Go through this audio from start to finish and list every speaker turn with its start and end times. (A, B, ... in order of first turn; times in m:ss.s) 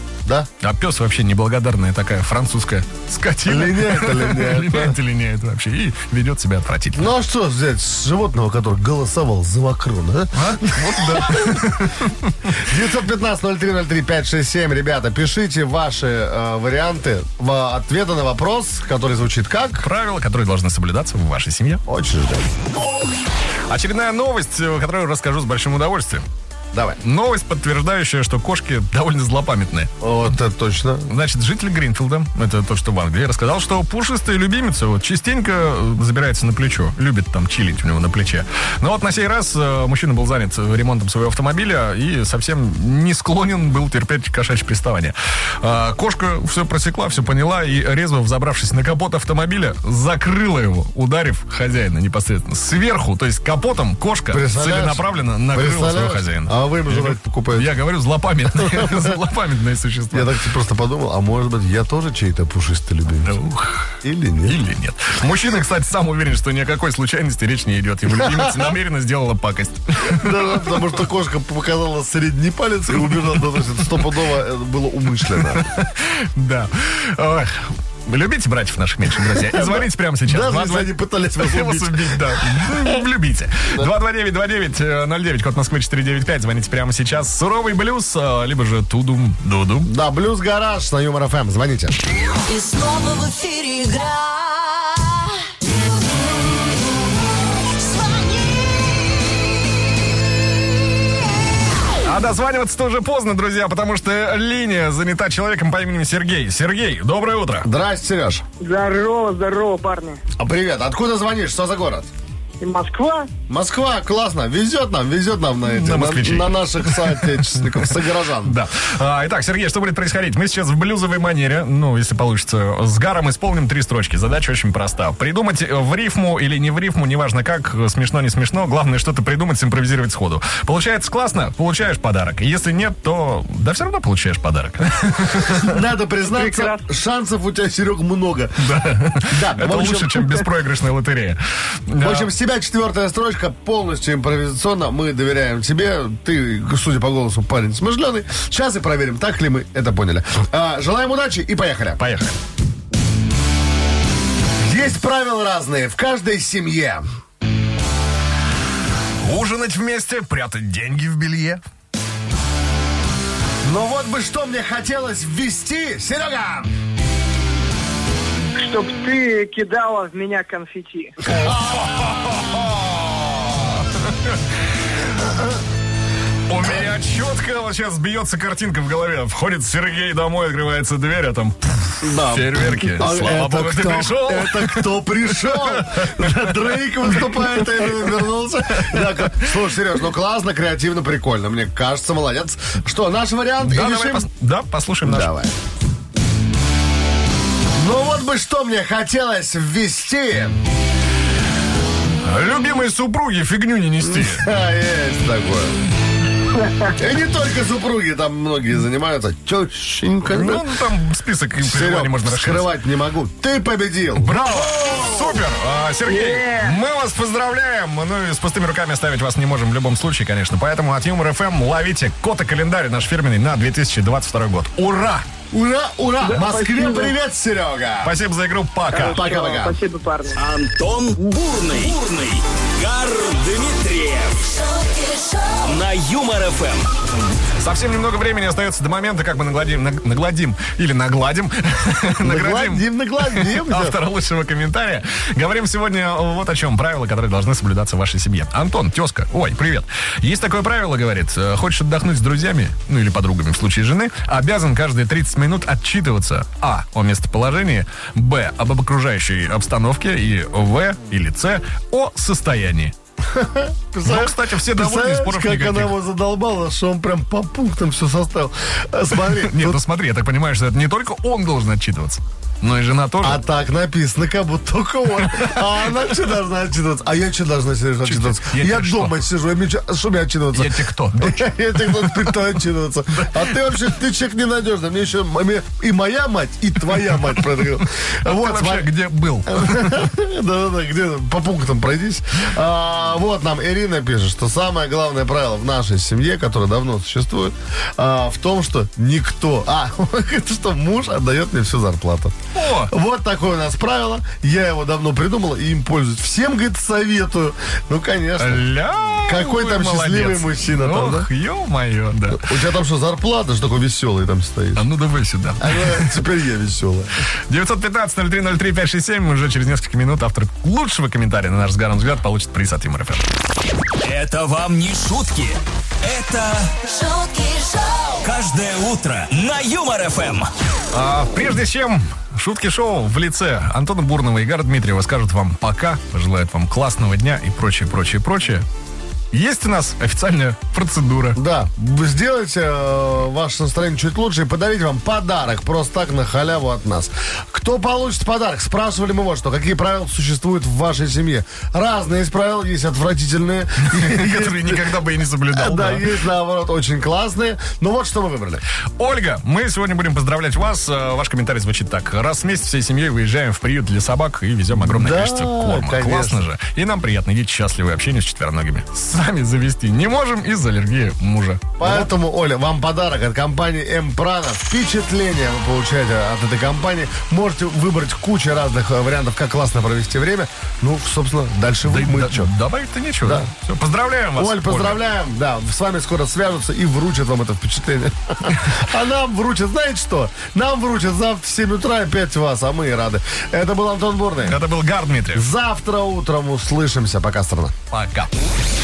0:00.6-0:07.1 A
0:03.5-0:05.0 B
0:06.9-0:11.7 B
0:10.3-0:12.6 A
0:12.6-0:19.9 B
0:19.8-0:21.8 A
0:21.9-0:22.5 B
0:23.7-0:26.2 A
0:26.7-0:27.0 B
0:27.0-0:29.9 A
0:30.0-0:31.1 B
0:31.1-1:00.3 A
0:54.3-0:57.8 B
0:58.5-0:59.2 B
1:00.1-1:03.4 B
1:03.2-1:03.9 A
1:04.0-1:04.6 B
1:04.4-1:10.8 A
1:08.1-1:08.7 B
1:10.0-1:15.7 B
1:13.1-1:13.6 A
1:15.4-1:29.9 A
1:19.2-1:22.9 B
1:29.8-1:32.0 B
1:32.5-1:35.3 C
1:37.8-1:38.6 C
1:42.0-1:47.7 A
1:47.6-1:48.4 B
1:48.6-1:50.2 D
1:50.4-1:52.1 B
1:52.6-1:53.3 D
1:53.5-1:58.6 B
1:55.7-2:15.8 A
2:15.5-2:20.5 B
2:16.2-2:16.9 D
2:18.6-2:22.3 A
2:22.0-2:32.0 B
2:32.0-2:32.4 A
2:34.6-2:37.0 B
2:39.2-2:41.6 A
2:43.6-2:46.7 B
2:48.6-2:51.2 D
2:51.3-2:54.4 A
2:56.5-3:06.7 A
3:02.0-3:14.3 B
3:07.3-3:07.8 A
3:08.8-3:09.5 A
3:13.6-3:15.3 A
3:15.0-3:15.5 B
3:17.8-3:20.6 B
3:22.2-3:24.5 A
3:24.0-3:25.8 B
3:26.6-3:27.0 D
3:27.0-3:30.7 B
3:30.3-3:32.7 A
3:31.6-3:34.6 B
3:34.2-3:45.2 A
3:34.9-3:35.3 D
3:36.0-3:36.8 D
3:45.5-3:48.2 B
3:46.2-3:47.2 D
3:48.0-3:49.2 A
3:48.9-3:50.4 D
3:49.1-3:49.8 B
3:50.4-3:54.5 E
3:54.4-3:55.8 C
3:55.6-3:56.9 E
3:57.6-4:23.0 A
4:02.2-4:04.0 B
4:23.3-4:29.8 B
4:24.0-4:26.0 A
4:29.2-4:33.4 A
4:33.2-4:48.9 B
4:35.3-4:35.6 A
4:38.0-4:39.2 A
4:40.5-4:42.5 A
4:43.1-4:43.5 A
4:47.6-4:50.1 A
4:49.5-5:02.4 B
5:02.5-5:02.9 A
5:02.9-5:11.3 B
5:08.4-5:12.5 A
5:12.3-5:14.8 B
5:14.8-5:16.2 A
5:15.6-5:17.1 B
5:17.5-5:23.3 A
5:24.0-5:26.8 E
5:26.8-5:28.3 C
5:28.2-5:30.5 E
5:30.9-5:38.7 A
5:39.3-5:41.4 A
5:41.4-5:58.6 B
5:53.8-5:56.1 A
5:59.0-6:12.1 A
6:04.7-6:06.4 B
6:11.8-6:22.5 B
6:21.8-6:25.0 A
6:23.2-6:23.5 B
6:24.4-6:34.6 B
6:34.4-6:35.5 A
6:35.3-6:37.8 B
6:37.9-6:38.3 A